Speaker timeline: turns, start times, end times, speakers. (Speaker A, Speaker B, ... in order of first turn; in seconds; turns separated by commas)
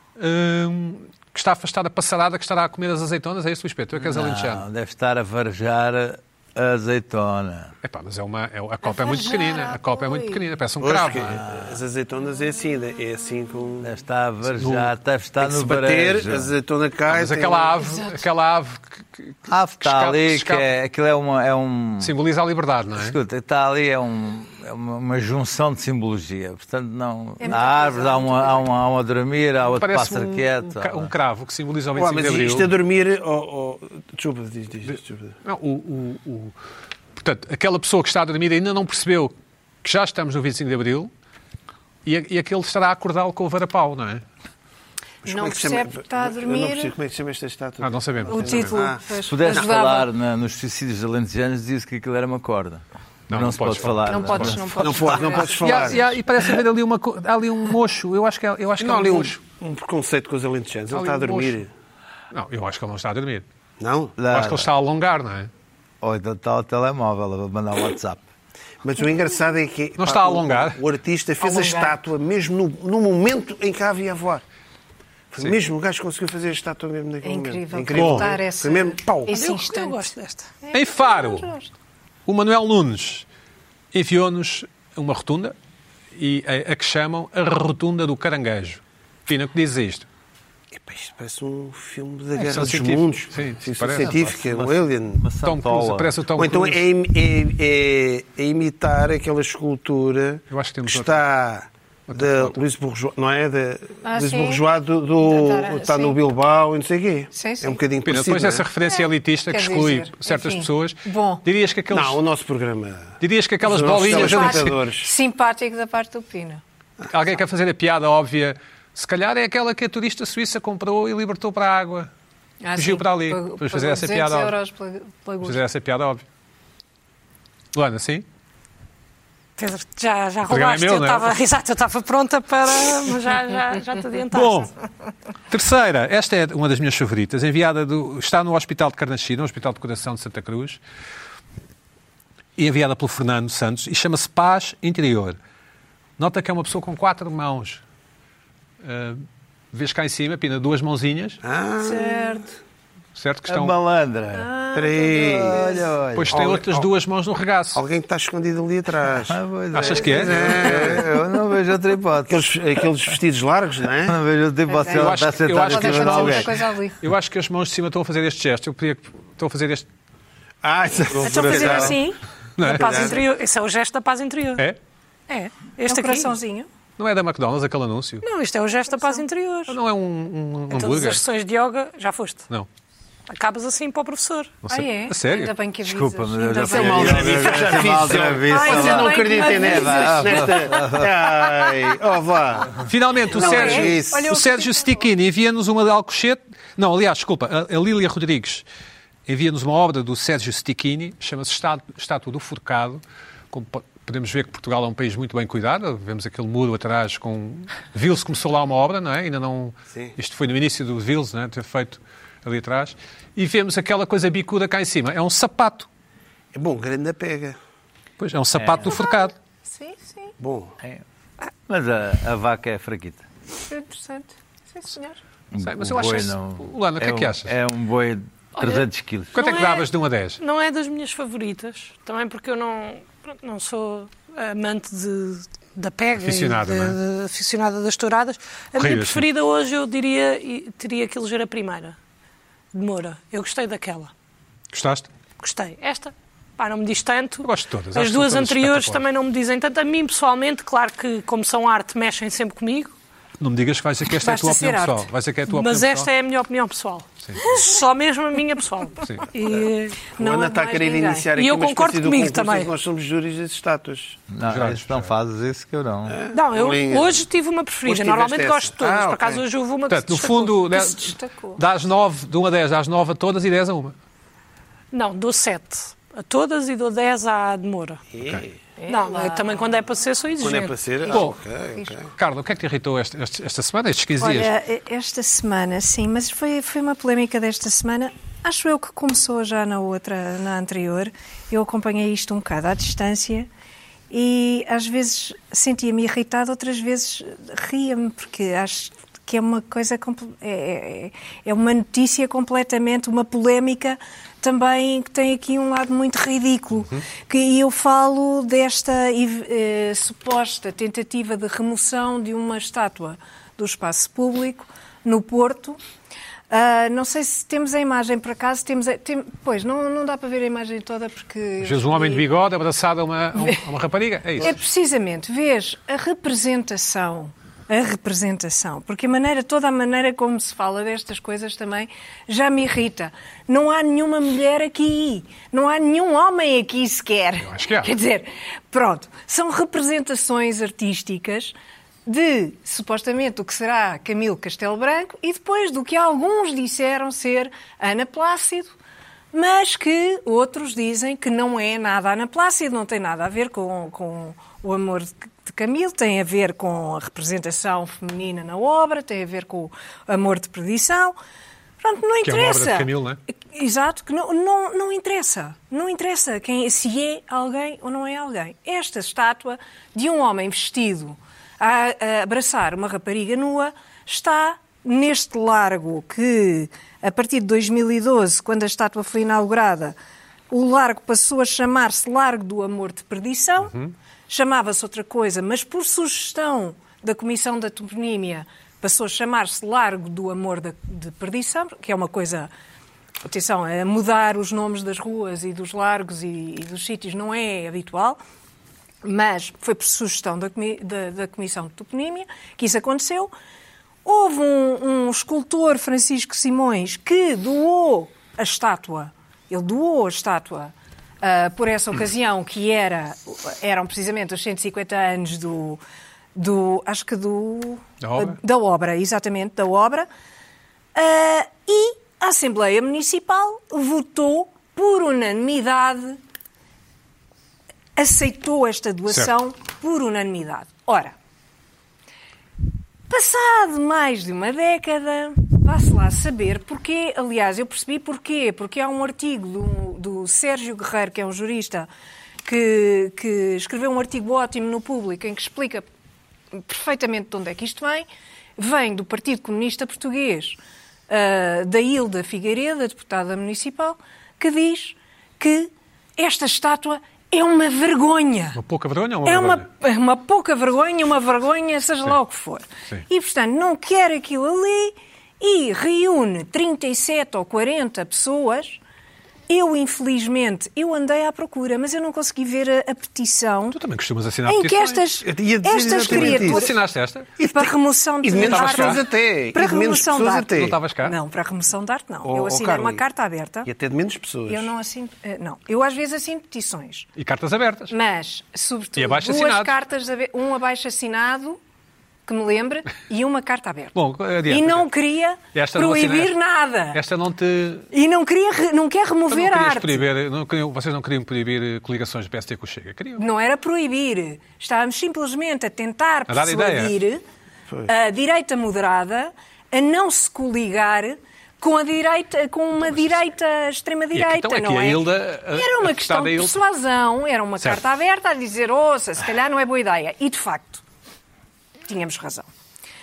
Speaker A: 0.2-4.7, Speaker B: 4.0-7.7, Speaker A: 7.8-11.5, Speaker C: 8.8-10.4, Speaker D: 10.8-13.9, Speaker B: 11.4-11.7, Speaker B: 13.8-16.5, Speaker A: 14.6-14.9, Speaker D: 15.4-17.7, Speaker A: 17.1-20.7, Speaker C: 17.8-18.2, Speaker B: 19.5-22.1, Speaker A: 22.0-23.2, Speaker B: 23.0-31.1, Speaker C: 27.4-28.7, Speaker A: 29.7-32.7, Speaker D: 32.0-35.3, Speaker A: 34.9-36.5, Speaker A: 37.2-41.1, Speaker A: 42.0-44.2, Speaker D: 45.2-49.7, Speaker C: 45.3-46.9, Speaker A: 47.8-48.8, Speaker C: 48.3-50.1, Speaker B: 49.2-55.3, Speaker A: 53.3-54.7, Speaker C: 54.1-56.0, Speaker D: 54.8-56.0, Speaker A: 55.6-59.4, Speaker D: 58.8-61.7, Speaker A: 60.9-61.6, Speaker A: 62.3-63.5, Speaker D: 63.8-64.2, Speaker B: 64.2-64.7, Speaker A: 64.3-65.5, Speaker B: 66.0-68.2, Speaker D: 68.8-74.4, Speaker A: 70.0-70.8, Speaker C: 71.4-72.0, Speaker D: 75.3-79.3, Speaker C: 77.2-81.7, Speaker A: 77.9-78.3, Speaker E: 79.3-80.5, Speaker A: 80.7-81.5, Speaker A: 82.3-83.3, Speaker A: 83.9-85.6, Speaker A: 86.2-90.1, Speaker D: 90.7-95.2, Speaker A: 92.4-94.3, Speaker B: 94.0-96.1, Speaker A: 95.4-96.8, Speaker D: 96.4-108.7, Speaker A: 100.5-101.2, Speaker A: 102.1-102.5, Speaker C: 104.0-104.6, Speaker C: 105.2-106.2, Speaker C: 107.3-107.8, Speaker A: 108.0-112.2, Speaker C: 108.8-111.4, Speaker D: 111.9-115.1, Speaker A: 113.2-114.8, Speaker C: 114.0-116.6, Speaker A: 117.1-122.1, Speaker C: 122.6-125.6, Speaker A: 122.8-124.6, Speaker A: 125.4-126.3, Speaker A: 127.7-128.2, Speaker E: 129.6-134.7, Speaker A: 130.5-131.3, Speaker A: 134.3-134.7, Speaker A: 135.5-140.8, Speaker A: 142.6-145.4, Speaker A: 146.2-147.8, Speaker A: 148.8-151.4, Speaker D: 151.4-152.3, Speaker C: 151.8-152.5, Speaker A: 153.2-153.8, Speaker B: 153.5-154.5, Speaker C: 154.3-155.9, Speaker D: 154.7-155.6, Speaker B: 155.3-156.4, Speaker A: 156.1-157.8, Speaker D: 156.3-156.9, Speaker D: 157.8-161.2, Speaker B: 159.3-162.4, Speaker A: 159.7-160.7, Speaker D: 162.3-164.2, Speaker B: 164.1-166.6, Speaker C: 164.7-167.0, Speaker A: 164.9-169.9, Speaker D: 170.6-172.0, Speaker B: 171.1-172.0, Speaker C: 171.2-172.2, Speaker A: 172.6-173.2, Speaker E: 172.6-174.7, Speaker D: 172.7-173.2, Speaker E: 175.3-176.3, Speaker C: 175.9-176.7, Speaker A: 177.0-178.2, Speaker E: 178.2-179.8, Speaker C: 178.9-179.2, Speaker A: 179.7-181.2, Speaker E: 180.7-182.5, Speaker E: 183.3-184.6, Speaker A: 184.6-185.5, Speaker C: 184.7-187.8, Speaker B: 185.8-191.2, Speaker D: 186.6-194.0, Speaker C: 188.4-190.9, Speaker A: 192.8-198.7, Speaker C: 193.3-195.1, Speaker B: 193.7-194.1, Speaker A: 199.3-215.9, Speaker D: 216.5-217.6, Speaker A: 218.2-219.3, Speaker B: 218.6-218.9, Speaker C: 218.8-220.4, Speaker D: 220.4-220.8, Speaker B: 221.7-223.3, Speaker C: 223.7-225.2, Speaker B: 225.5-229.4, Speaker A: 225.6-227.6, Speaker E: 228.6-229.9, Speaker A: 229.3-230.4, Speaker E: 230.4-242.0, Speaker A: 236.2-237.0, Speaker A: 238.8-239.2, Speaker E: 242.7-244.1, Speaker A: 244.7-245.1, Speaker E: 245.4-252.9, Speaker A: 247.4-249.0, Speaker A: 253.4-256.1, Speaker C: 254.2-255.1, Speaker E: 255.5-260.1, Speaker C: 260.2-261.3, Speaker D: 260.2-264.2, Speaker E: 261.4-262.7, Speaker B: 264.3-266.2, Speaker A: 264.5-265.1, Speaker D: 266.1-267.2, Speaker E: 266.3-270.7, Speaker D: 267.9-269.4, Speaker A: 269.9-274.0, Speaker C: 270.7-271.6, Speaker E: 274.9-278.0, Speaker D: 278.1-278.6, Speaker C: 278.8-279.8, Speaker E: 278.9-280.8, Speaker D: 280.4-282.1, Speaker A: 281.1-281.4, Speaker A: 282.2-284.5, Speaker C: 284.2-293.5, Speaker C: 294.1-315.8, Speaker A: 306.8-307.0, Speaker C: 316.5-322.3, Speaker A: 321.6-324.6, Speaker C: 323.4-323.6, Speaker C: 324.4-341.6, Speaker A: 337.4-337.9, Speaker C: 342.1-348.8, Speaker C: 349.3-361.2, Speaker C: 361.8-380.0, Speaker A: 362.2-363.2, Speaker C: 380.5-383.8, Speaker A: 383.7-383.9, Speaker C: 384.3-392.5, Speaker C: 393.2-398.2, Speaker C: 399.0-403.3, Speaker C: 404.1-415.8, Speaker C: 416.4-420.1, Speaker A: 418.0-418.4, Speaker C: 420.9-426.2, Speaker C: 428.0-431.1, Speaker A: 429.1-429.3, Speaker C: 433.1-441.9, Speaker C: 442.4-445.9, Speaker C: 446.5-448.1, Speaker C: 448.6-450.6, Speaker C: 451.1-458.6, Speaker A: 458.6-459.7, Speaker C: 459.2-468.8, Speaker C: 469.5-473.8, Speaker A: 473.7-475.0, Speaker C: 474.5-476.8, Speaker D: 475.2-476.7, Speaker A: 476.1-477.3, Speaker D: 477.4-477.7, Speaker C: 477.5-483.7, Speaker D: 478.2-480.8, Speaker A: 478.4-479.0, Speaker A: 480.5-481.2, Speaker D: 482.2-483.0, Speaker D: 483.7-484.7, Speaker C: 484.5-487.1, Speaker A: 487.2-487.9, Speaker C: 487.9-491.6, Speaker A: 489.0-489.8, Speaker C: 492.3-497.0, Speaker A: 493.9-494.9, Speaker A: 495.5-496.4, Speaker A: 496.9-497.9, Speaker C: 497.9-500.0, Speaker A: 499.3-503.2, Speaker C: 503.2-507.2, Speaker A: 506.3-506.9, Speaker C: 507.9-520.8, Speaker A: 514.1-516.6, Speaker C: 521.9-522.5